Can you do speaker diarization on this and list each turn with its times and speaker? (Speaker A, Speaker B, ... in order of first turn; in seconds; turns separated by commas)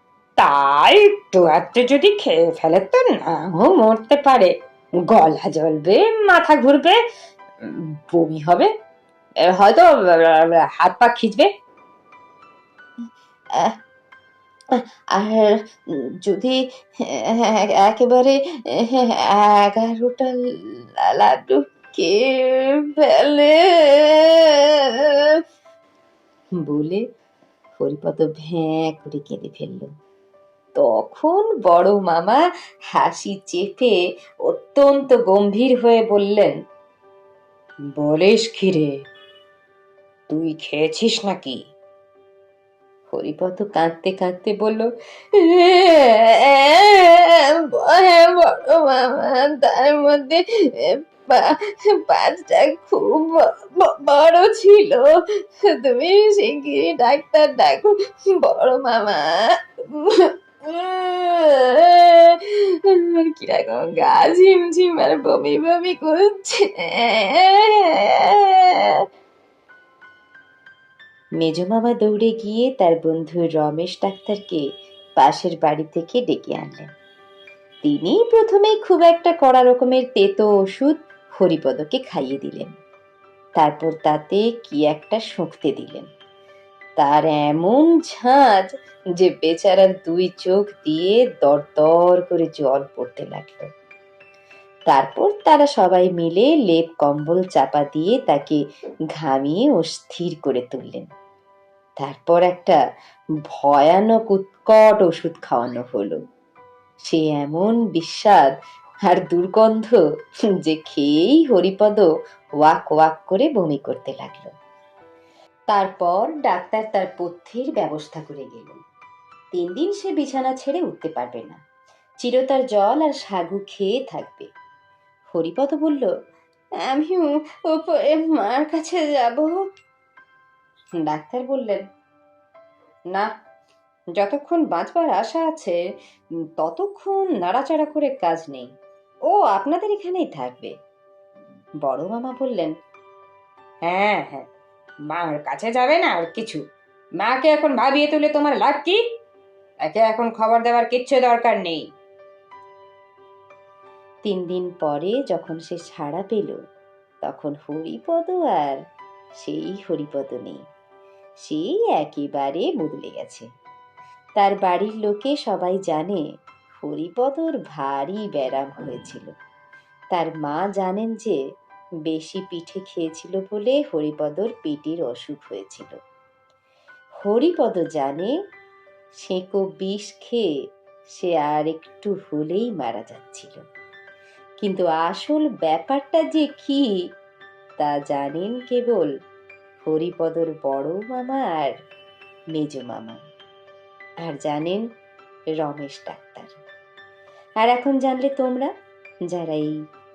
Speaker A: 0.4-4.3, Speaker B: 2.7-4.5, Speaker A: 5.2-5.6, Speaker B: 5.2-6.7, Speaker A: 6.6-6.9, Speaker B: 8.1-8.7, Speaker A: 9.6-11.3, Speaker B: 11.2-11.5, Speaker B: 14.8-15.5, Speaker B: 16.3-25.4, Speaker B: 26.6-27.0, Speaker B: 27.8-29.9, Speaker B: 30.8-36.5, Speaker B: 38.0-38.9, Speaker A: 40.3-41.6, Speaker B: 41.1-41.4, Speaker B: 43.1-69.0, Speaker B: 71.4-74.6, Speaker B: 75.2-76.9, Speaker B: 77.8-82.7, Speaker B: 83.6-86.1, Speaker B: 87.0-93.7, Speaker B: 94.9-98.6, Speaker B: 99.2-101.1, Speaker B: 102.0-102.8, Speaker B: 103.5-106.2, Speaker B: 107.1-108.5, Speaker B: 109.1-110.0, Speaker B: 110.6-112.1, Speaker B: 112.6-114.5, Speaker B: 115.7-118.8, Speaker B: 119.5-121.6, Speaker B: 122.2-124.5, Speaker B: 125.3-126.1, Speaker B: 126.9-129.6, Speaker B: 131.0-131.8, Speaker B: 134.2-135.8, Speaker B: 136.6-138.7, Speaker B: 139.3-140.7, Speaker B: 141.8-142.7, Speaker A: 143.9-144.4, Speaker A: 145.1-146.6, Speaker A: 147.2-149.0, Speaker A: 149.8-151.9, Speaker B: 154.2-156.6, Speaker B: 157.2-158.8, Speaker B: 159.4-160.6, Speaker B: 161.4-163.5, Speaker B: 164.4-166.2, Speaker B: 166.8-169.3, Speaker B: 170.1-171.4, Speaker B: 172.1-176.0, Speaker B: 177.2-178.3, Speaker B: 179.2-180.5, Speaker B: 181.2-183.6, Speaker B: 184.6-186.9, Speaker B: 187.8-189.1, Speaker B: 189.8-191.7, Speaker B: 192.5-193.2, Speaker B: 194.2-194.8, Speaker B: 195.6-196.6, Speaker B: 197.6-198.7, Speaker B: 199.3-199.8